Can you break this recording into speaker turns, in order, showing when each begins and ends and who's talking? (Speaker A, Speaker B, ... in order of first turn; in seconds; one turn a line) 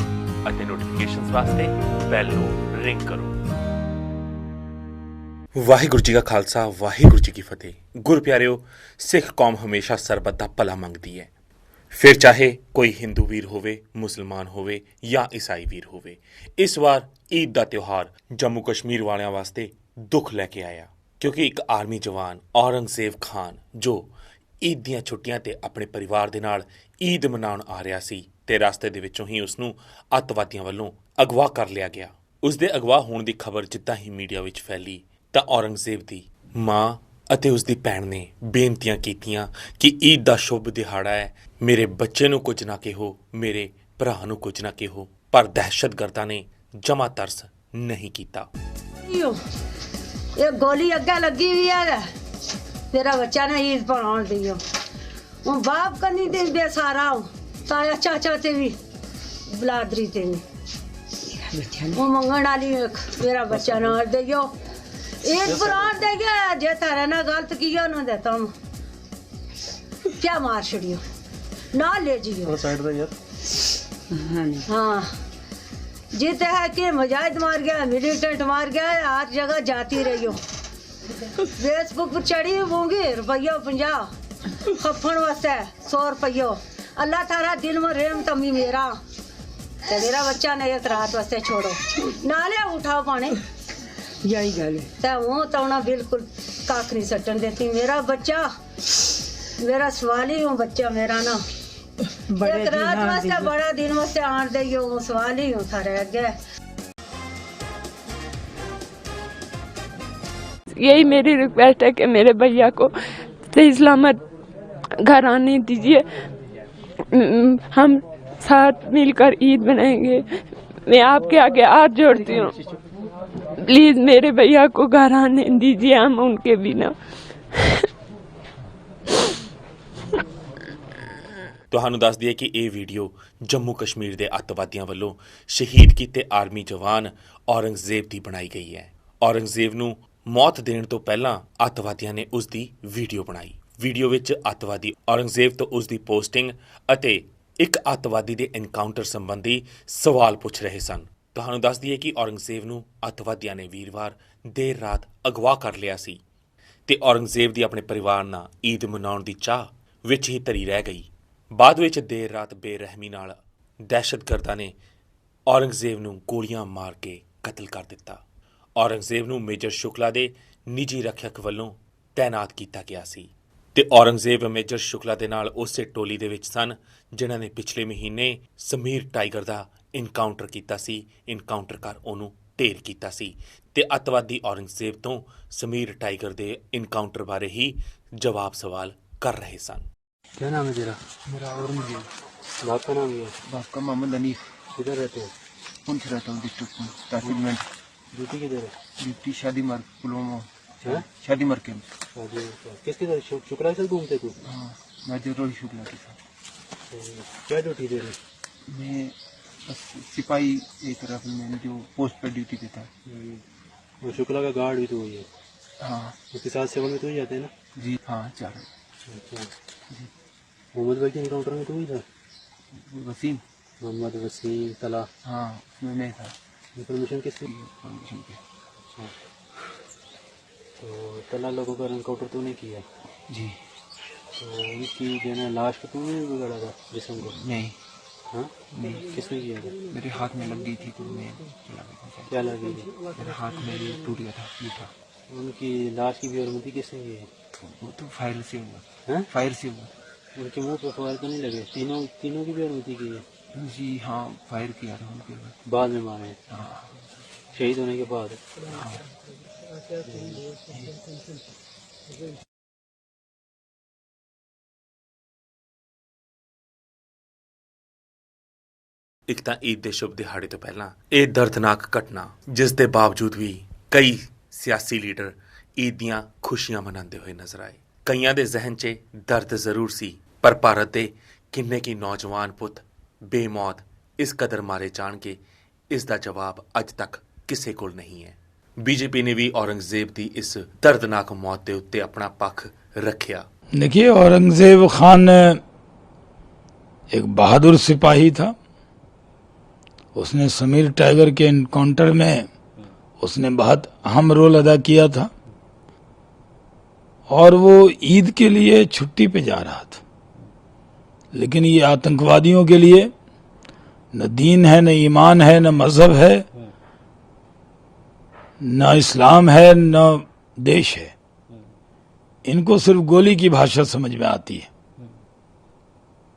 Speaker A: 0.4-3.3
Speaker A: 5.5-11.3
Speaker A: 11.9-24.1
Speaker A: 24.6-48.5
Speaker B: 49.0-49.4
Speaker B: 50.4-52.0
Speaker B: 52.9-54.6
Speaker B: 55.4-58.7
Speaker B: 59.5-60.4
Speaker B: 61.4-64.5
Speaker C: 63.5-64.0
Speaker B: 65.2-68.5
Speaker C: 65.4-66.0
Speaker B: 70.2-71.0
Speaker B: 71.7-72.6
Speaker C: 72.5-73.1
Speaker B: 74.7-75.1
Speaker B: 76.1-80.4
Speaker B: 81.5-84.1
Speaker B: 84.8-88.9
Speaker B: 89.9-93.3
Speaker B: 94.9-98.5
Speaker B: 99.6-101.4
Speaker D: 102.4-103.5
Speaker B: 102.5-106.3
Speaker D: 110.7-112.9
Speaker D: 113.5-114.2
Speaker D: 115.0-116.1
Speaker D: 117.1-120.3
Speaker D: 120.8-122.6
Speaker D: 123.6-126.9
Speaker D: 127.5-127.8
Speaker A: 131.7-156.2
Speaker A: 156.9-164.8
Speaker A: 165.5-168.2
Speaker A: 168.8-189.9
Speaker C: 190.4-191.0
Speaker E: 191.3-192.1
Speaker C: 192.6-193.4
Speaker E: 193.4-194.4
Speaker C: 194.7-195.3
Speaker E: 195.8-197.7
Speaker C: 198.1-198.7
Speaker E: 199.0-201.9
Speaker C: 202.1-204.4
Speaker E: 204.4-206.2
Speaker C: 206.9-208.2
Speaker E: 208.7-212.9
Speaker C: 213.1-213.4
Speaker C: 214.0-215.3
Speaker E: 215.8-216.2
Speaker C: 216.3-217.5
Speaker E: 217.8-218.7
Speaker C: 219.1-219.5
Speaker C: 220.7-222.0
Speaker E: 222.7-223.4
Speaker C: 223.8-225.1
Speaker E: 225.2-226.3
Speaker C: 226.8-227.4
Speaker E: 227.4-228.4
Speaker C: 230.8-232.8
Speaker E: 233.3-233.6
Speaker C: 234.3-237.3
Speaker E: 237.2-237.8
Speaker C: 238.3-239.8
Speaker E: 238.7-239.0
Speaker E: 239.9-242.3
Speaker C: 242.3-242.9
Speaker E: 243.0-244.9
Speaker C: 245.3-247.3
Speaker E: 247.6-249.9
Speaker C: 249.1-249.3
Speaker C: 250.3-253.2
Speaker E: 253.5-255.7
Speaker C: 255.7-256.4
Speaker E: 256.5-256.9
Speaker C: 257.5-258.4
Speaker C: 260.1-260.4
Speaker A: 269.3-285.4
Speaker A: 285.9-293.4
Speaker F: 293.8-295.6
Speaker F: 297.1-298.5
Speaker F: 300.1-302.5
Speaker F: 303.2-305.3
Speaker F: 307.3-310.0
Speaker F: 311.3-313.1
Speaker F: 314.1-316.4
Speaker F: 318.6-321.1
Speaker F: 322.4-324.7